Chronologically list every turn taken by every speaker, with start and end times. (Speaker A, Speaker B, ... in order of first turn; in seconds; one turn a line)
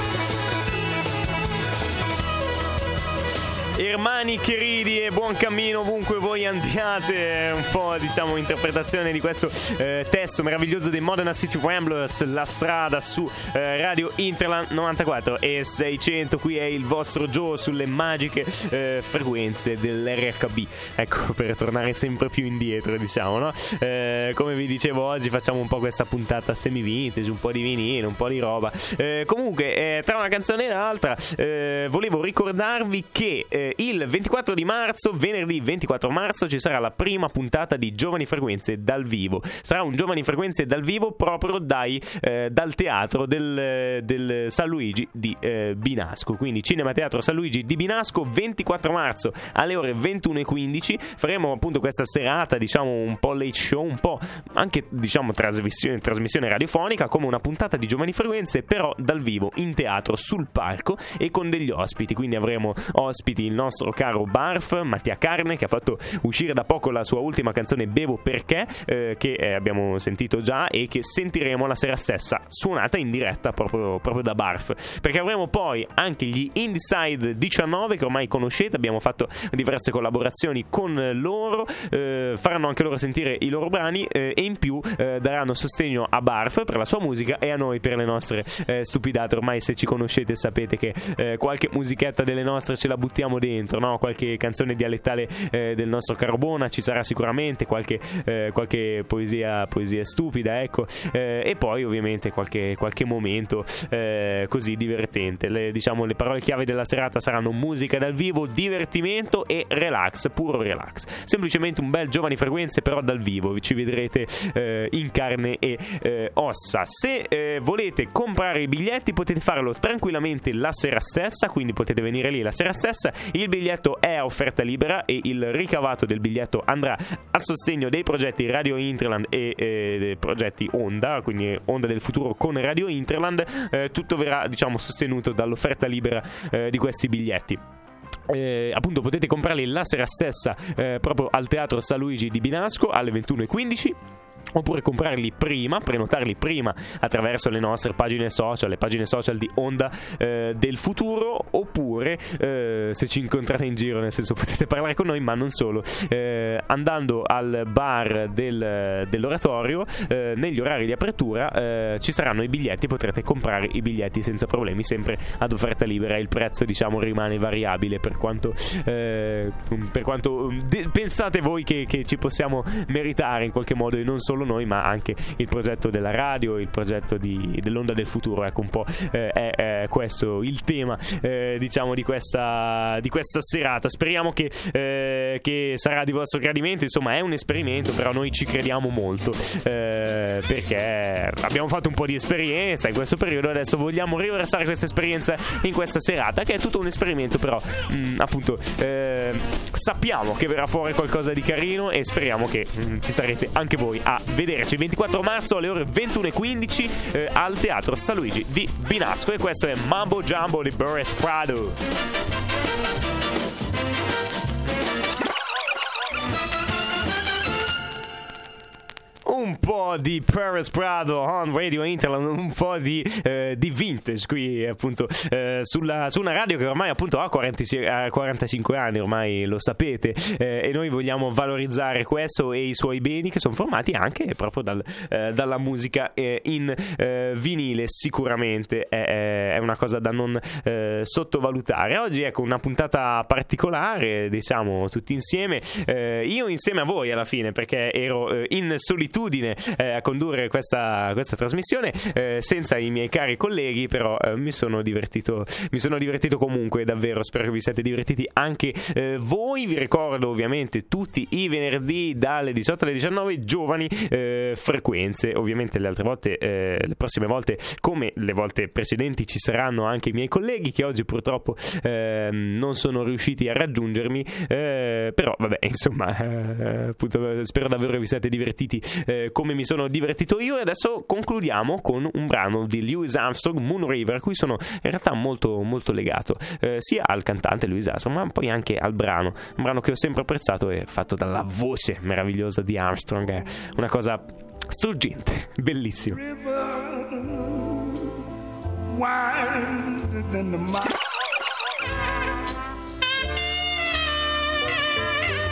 Speaker A: 3.7-137.6
Speaker A: 138.3-144.0
Speaker A: 144.5-211.8
Speaker A: 219.2-296.2